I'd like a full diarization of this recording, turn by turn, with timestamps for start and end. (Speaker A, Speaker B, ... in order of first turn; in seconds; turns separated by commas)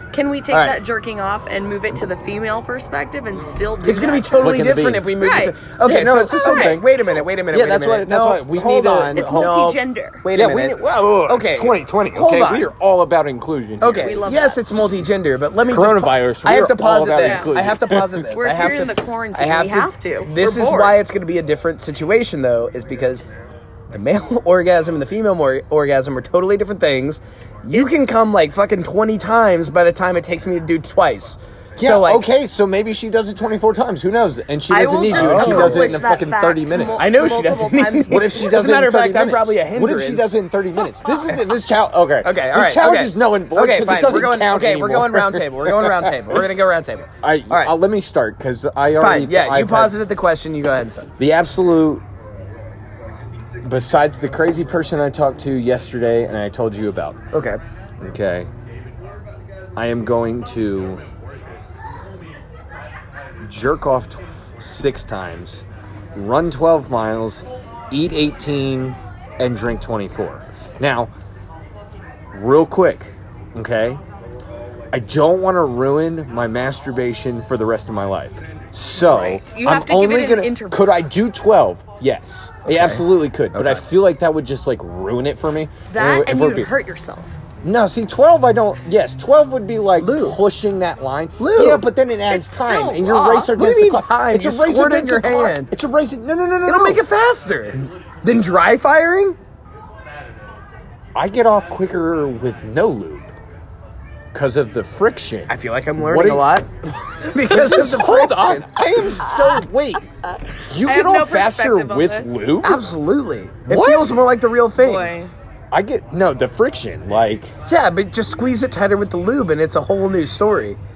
Speaker A: 0.1-4.6, Speaker B: 0.5-0.8, Speaker B: 3.9-12.7, Speaker C: 4.4-5.1, Speaker A: 5.2-5.6, Speaker C: 5.8-6.9, Speaker A: 6.3-6.8, Speaker C: 7.5-9.5, Speaker A: 9.1-10.2, Speaker C: 10.3-14.2, Speaker B: 13.8-23.2, Speaker A: 14.0-14.6, Speaker C: 15.7-18.2, Speaker A: 17.2-17.5, Speaker A: 18.3-21.0, Speaker B: 23.9-32.3, Speaker C: 31.8-37.1, Speaker A: 34.7-38.5, Speaker B: 35.1-36.0, Speaker B: 37.0-40.3, Speaker C: 38.1-46.4, Speaker A: 40.9-41.4, Speaker B: 42.2-47.7, Speaker C: 47.2-50.0, Speaker B: 49.0-51.1, Speaker C: 51.2-52.0, Speaker C: 53.6-57.2, Speaker B: 57.3-57.6, Speaker C: 58.0-58.5, Speaker C: 59.8-61.0, Speaker C: 63.4-65.6, Speaker C: 66.1-71.1, Speaker C: 72.3-74.0, Speaker C: 74.9-86.7, Speaker A: 79.0-81.0, Speaker B: 82.7-83.8, Speaker A: 85.9-87.3, Speaker C: 87.6-97.0, Speaker B: 90.0-90.4, Speaker B: 91.4-91.8, Speaker A: 92.3-93.5, Speaker B: 93.5-95.7, Speaker B: 96.7-99.3, Speaker C: 101.2-103.3, Speaker C: 104.3-106.6, Speaker B: 105.5-108.7, Speaker C: 107.4-110.0, Speaker A: 109.0-109.6, Speaker C: 110.7-112.8, Speaker A: 110.8-112.5, Speaker B: 112.6-115.1, Speaker C: 113.7-114.2, Speaker A: 114.8-115.3, Speaker C: 115.7-117.5, Speaker B: 117.7-120.8